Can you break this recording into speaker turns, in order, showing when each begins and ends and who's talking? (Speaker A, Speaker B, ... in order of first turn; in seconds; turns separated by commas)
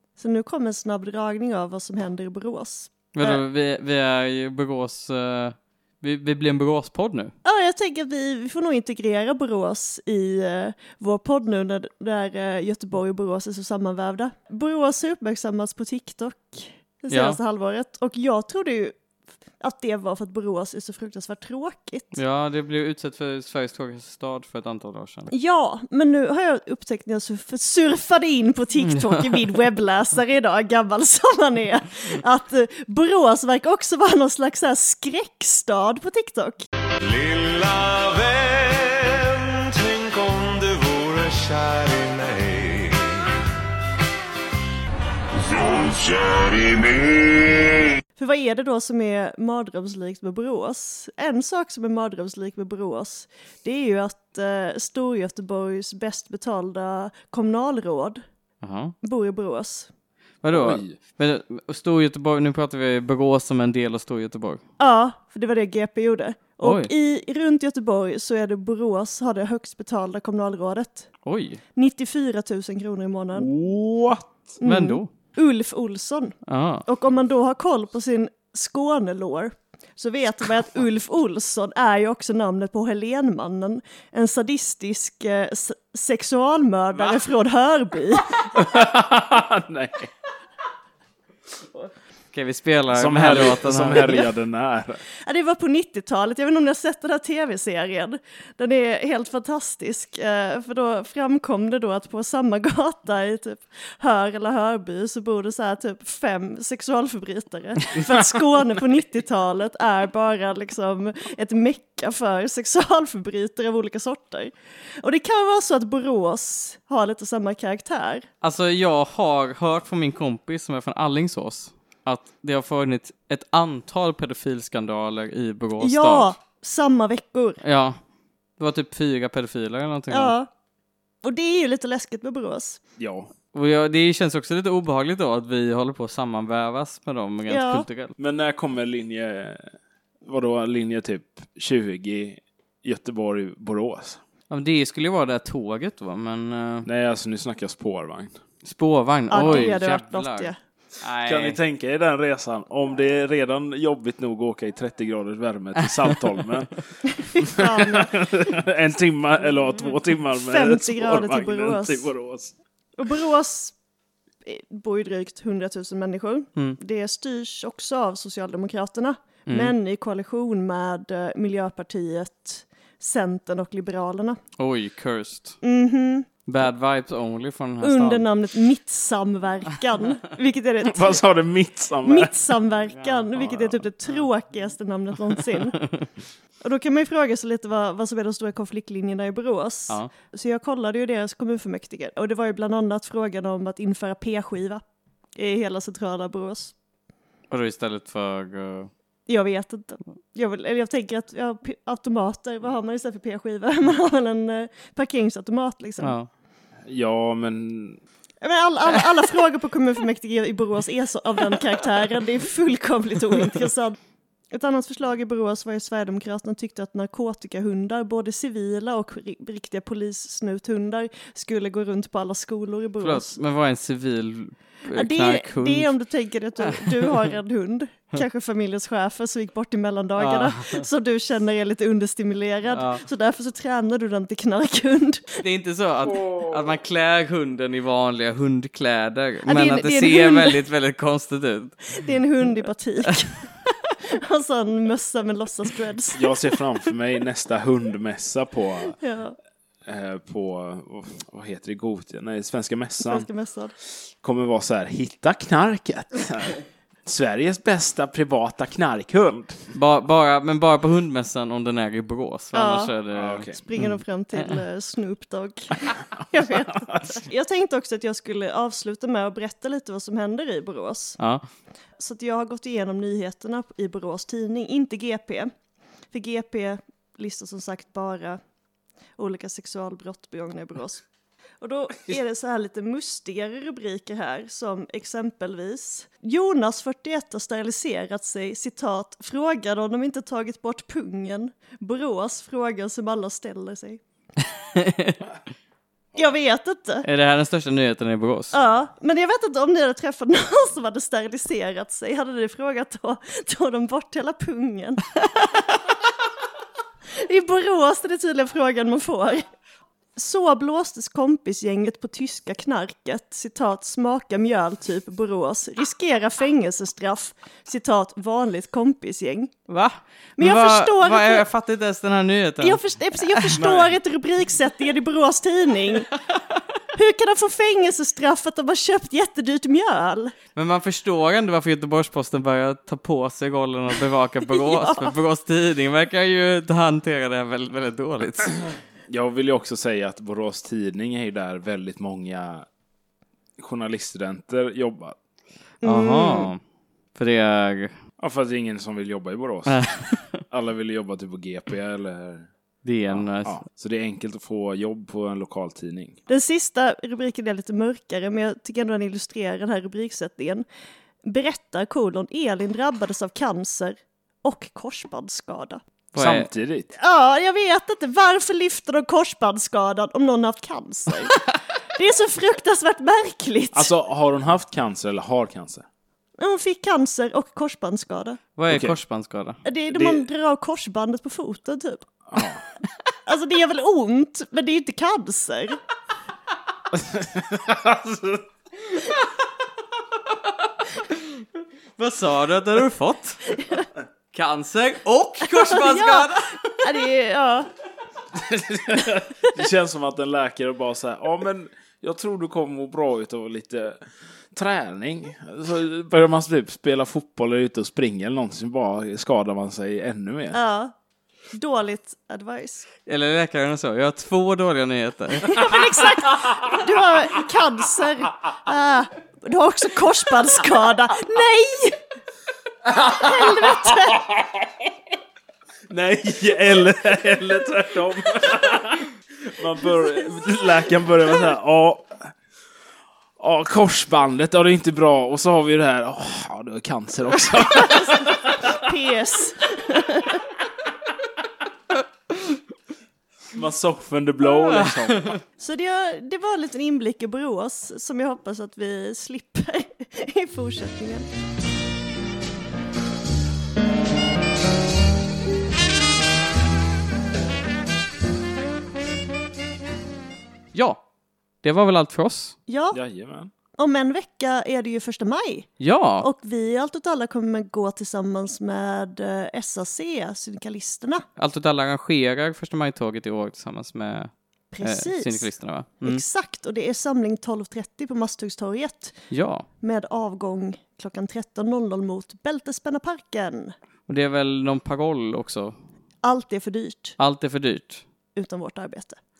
Speaker A: 0.2-3.4, Speaker B: 3.1-7.3, Speaker A: 7.4-18.9, Speaker B: 17.1-17.4, Speaker A: 19.6-22.1, Speaker B: 22.1-25.3, Speaker A: 25.3-36.7, Speaker B: 28.9-29.3, Speaker C: 37.0-43.0, Speaker C: 45.5-47.1, Speaker A: 48.2-58.2, Speaker B: 58.6-58.9, Speaker A: 59.0-59.9, Speaker B: 60.4-64.6, Speaker D: 60.5-61.0, Speaker A: 64.8-71.1, Speaker B: 66.6-66.9, Speaker B: 71.2-71.6, Speaker A: 71.8-73.5, Speaker D: 73.3-74.5, Speaker A: 74.6-88.5, Speaker B: 74.6-75.1, Speaker B: 76.5-76.8, Speaker D: 88.5-90.1, Speaker B: 92.3-94.2, Speaker D: 92.9-95.0, Speaker A: 95.2-118.3, Speaker B: 118.4-126.3, Speaker A: 125.8-127.6, Speaker B: 127.6-128.0, Speaker B: 128.6-130.3, Speaker A: 130.1-130.5, Speaker A: 131.2-132.8, Speaker D: 133.0-133.3, Speaker B: 133.5-138.1, Speaker A: 137.5-137.8, Speaker D: 138.2-144.2, Speaker B: 144.5-146.9, Speaker D: 146.8-148.3, Speaker B: 148.6-151.6, Speaker A: 149.3-150.6, Speaker D: 149.4-149.7, Speaker D: 151.2-162.5, Speaker A: 157.2-158.1, Speaker A: 160.3-162.1, Speaker A: 163.0-163.8, Speaker A: 164.4-174.4, Speaker B: 169.5-169.7, Speaker B: 174.6-175.6, Speaker A: 175.6-176.3, Speaker B: 176.4-178.3, Speaker A: 177.8-181.2, Speaker D: 180.8-182.3, Speaker A: 182.0-185.8, Speaker B: 182.9-184.2, Speaker B: 185.8-186.1, Speaker A: 186.6-194.8, Speaker A: 195.4-196.7, Speaker B: 197.5-198.9, Speaker A: 199.3-206.1, Speaker B: 206.0-206.3, Speaker D: 206.8-208.0, Speaker A: 208.4-213.9, Speaker A: 214.5-223.3, Speaker B: 223.0-225.9, Speaker A: 224.9-235.4, Speaker B: 226.7-227.1, Speaker B: 230.2-230.8, Speaker B: 232.7-233.0, Speaker B: 235.4-241.9, Speaker D: 236.1-236.6, Speaker A: 239.5-240.6, Speaker A: 241.9-243.5, Speaker A: 244.1-246.3, Speaker D: 246.1-249.0, Speaker A: 249.0-249.4, Speaker D: 249.8-253.3, Speaker A: 253.0-253.7, Speaker D: 253.9-259.7, Speaker B: 259.7-264.6, Speaker A: 262.5-262.9, Speaker D: 263.1-263.6, Speaker A: 263.5-271.2, Speaker D: 266.7-267.2, Speaker B: 271.2-271.4, Speaker A: 272.0-275.5, Speaker A: 276.1-278.4, Speaker A: 279.2-281.0, Speaker A: 281.6-294.0, Speaker B: 294.7-295.2, Speaker A: 296.1-297.0, Speaker B: 297.0-298.6, Speaker A: 298.5-305.8, Speaker A: 307.1-309.4, Speaker A: 310.1-319.5, Speaker B: 319.7-322.8, Speaker A: 320.4-321.4, Speaker A: 322.6-326.1, Speaker B: 323.3-323.6, Speaker D: 323.6-323.9, Speaker A: 326.9-330.3, Speaker B: 330.6-338.5, Speaker A: 334.5-335.1, Speaker D: 339.1-342.6, Speaker D: 343.6-345.2, Speaker A: 345.8-346.5, Speaker B: 345.8-346.6, Speaker B: 347.1-347.9, Speaker D: 348.2-349.8, Speaker B: 349.7-350.4, Speaker D: 350.5-352.5, Speaker B: 352.8-353.6, Speaker D: 353.1-356.2, Speaker A: 356.3-360.6, Speaker A: 361.2-365.8, Speaker B: 366.1-366.5, Speaker D: 366.1-366.9, Speaker A: 366.9-371.4, Speaker A: 371.9-373.9, Speaker D: 373.7-375.9, Speaker A: 376.4-378.4, Speaker B: 378.6-379.6, Speaker D: 378.7-379.0, Speaker A: 379.6-382.1, Speaker D: 379.9-380.2, Speaker D: 382.3-382.6, Speaker A: 383.2-385.8, Speaker D: 386.9-388.4, Speaker B: 390.9-391.4, Speaker B: 392.0-393.6, Speaker B: 394.3-396.8, Speaker A: 395.6-397.7, Speaker D: 398.3-410.6, Speaker A: 410.5-410.9, Speaker A: 411.5-412.9, Speaker B: 413.1-415.7, Speaker A: 415.4-422.0, Speaker D: 422.9-424.9, Speaker A: 423.2-424.2, Speaker D: 425.9-432.3, Speaker D: 433.4-438.7, Speaker A: 437.8-440.4, Speaker D: 443.5-445.3, Speaker A: 445.6-451.3, Speaker B: 460.7-461.0, Speaker B: 461.6-462.6, Speaker A: 462.7-463.0, Speaker D: 462.9-463.5, Speaker A: 463.8-471.2, Speaker B: 465.8-466.3, Speaker B: 471.4-476.2, Speaker A: 474.7-475.5, Speaker A: 476.0-479.2, Speaker B: 479.3-479.6, Speaker A: 479.8-483.7, Speaker B: 484.1-485.7, Speaker A: 486.2-487.2, Speaker B: 487.2-488.0, Speaker A: 488.4-489.2